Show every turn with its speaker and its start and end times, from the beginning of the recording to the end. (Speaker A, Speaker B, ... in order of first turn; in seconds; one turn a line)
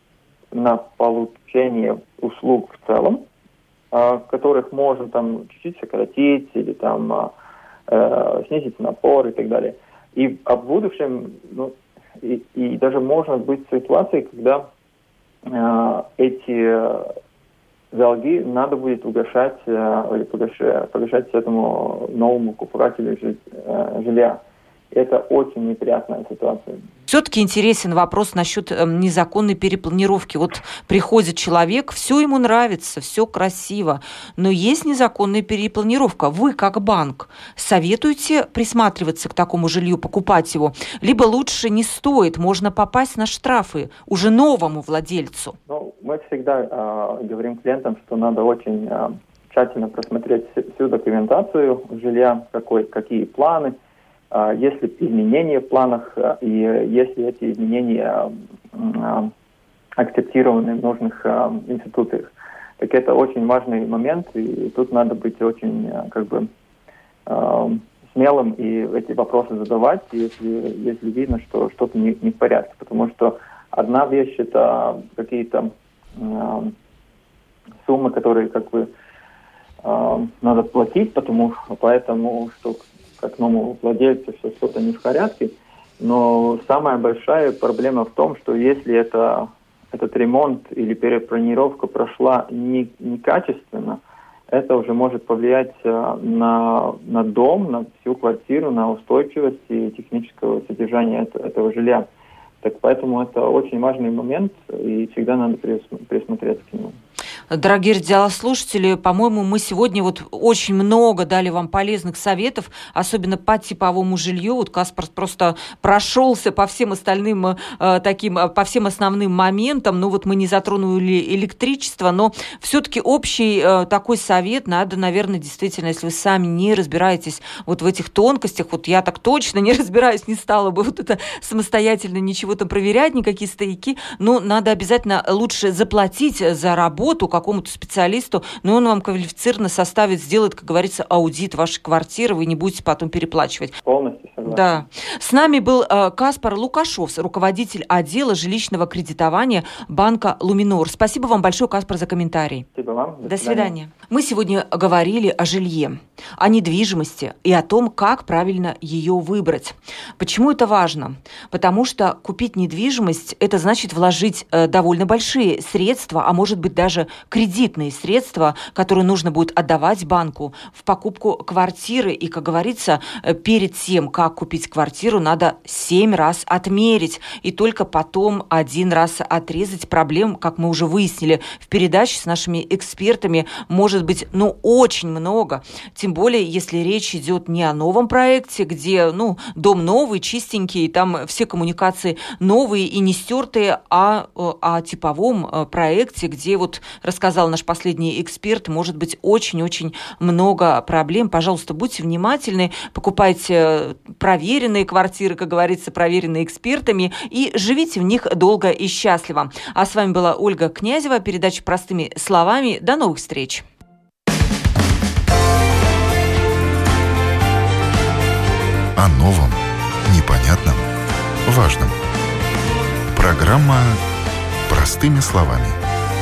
Speaker A: 0.5-3.2
Speaker A: 3.9-7.3
Speaker A: 7.9-14.7
Speaker A: 15.4-17.1
Speaker A: 17.9-24.4
Speaker A: 24.9-26.8
Speaker B: 27.1-45.6
Speaker A: 45.7-53.7
Speaker A: 54.3-59.3
Speaker A: 60.0-66.5
Speaker A: 67.2-76.7
Speaker A: 77.8-78.9
Speaker A: 79.8-102.0
Speaker A: 102.6-107.0
Speaker B: 107.5-143.7
Speaker A: 143.8-144.8
Speaker B: 144.4-152.7
Speaker A: 152.7-153.7
Speaker B: 153.2-213.7
Speaker C: 218.9-220.8
Speaker C: 221.4-221.9
Speaker C: 223.1-224.0
Speaker C: 224.7-225.8